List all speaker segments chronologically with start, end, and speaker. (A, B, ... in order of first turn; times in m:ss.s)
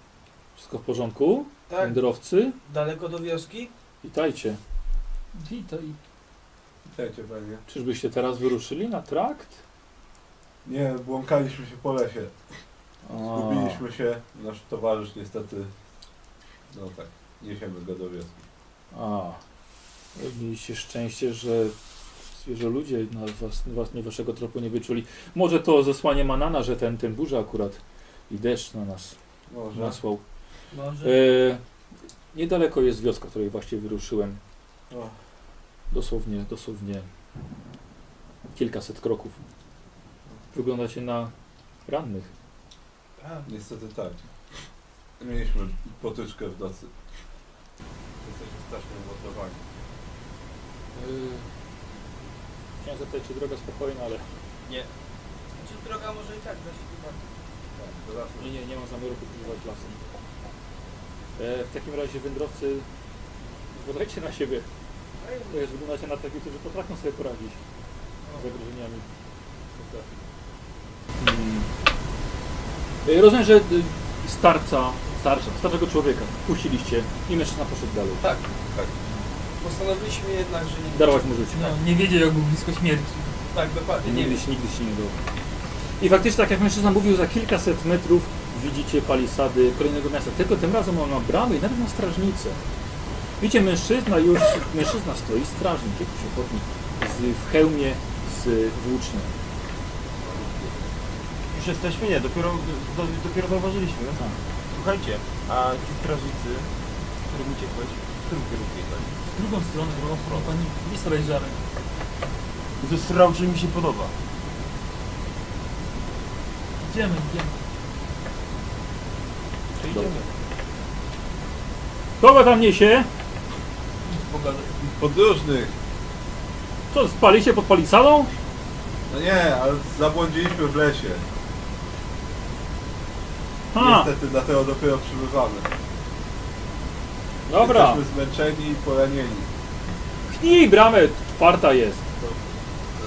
0:00.6-0:02.6 A
0:01.7-0:02.0 B
0:02.6-0:03.7 B
0:04.0-0:04.6 A
0:05.3-0:06.0 C
0:06.8-0:07.6 D
0:07.7-0:09.6 A
0:10.6-0:12.3 D
0:13.0-0:13.8 A
0:13.1-0:15.7 D
0:16.7-0:18.4 D
0:18.9-0:19.4 A
0:20.1-0:21.7 A
0:22.3-0:29.2 A
0:29.5-0:30.0 D
0:29.7-0:30.2 A
0:30.7-0:31.3 B
0:31.0-0:31.6 A
0:32.3-0:34.4 A
0:35.9-0:37.1 A
0:38.5-0:39.4 A
0:40.5-0:41.3 A
0:41.8-0:42.3 A
0:43.2-0:43.5 B
0:43.4-0:44.2 D
0:45.2-0:46.9 D
0:48.2-0:49.6 D
0:50.9-0:51.5 A
0:52.8-0:54.3 A
0:55.6-0:57.4 B
0:57.7-0:58.6 D
0:58.4-1:00.0 A
1:01.4-1:02.9 A
1:03.7-1:04.7 A
1:05.2-1:05.7 B
1:05.5-1:07.6 A
1:08.3-1:09.0 A
1:09.8-1:10.0 A
1:11.2-1:11.7 A
1:13.0-1:18.3 A
1:18.2-1:18.5 B
1:18.7-1:18.9 D
1:19.6-1:21.3 B
1:20.9-1:21.8 A
1:21.6-1:23.4 C
1:23.5-1:24.4 B
1:24.0-1:25.2 A
1:26.0-1:32.6 A
1:33.4-1:39.3 A
1:40.2-1:40.9 D
1:41.5-1:44.2 E
1:44.7-1:46.7 E
1:47.3-1:49.2 E
1:49.3-1:51.6 C
1:50.0-1:50.6 E
1:52.8-1:54.1 E
1:56.8-1:57.6 C
1:59.8-2:00.2 E
2:02.2-2:03.1 A
2:04.2-2:05.7 D
2:06.9-2:08.3 A
2:09.1-2:11.2 D
2:13.7-2:14.1 A
2:13.7-2:15.7 D
2:17.5-2:18.0 A
2:17.6-2:19.5 D
2:20.3-2:22.0 A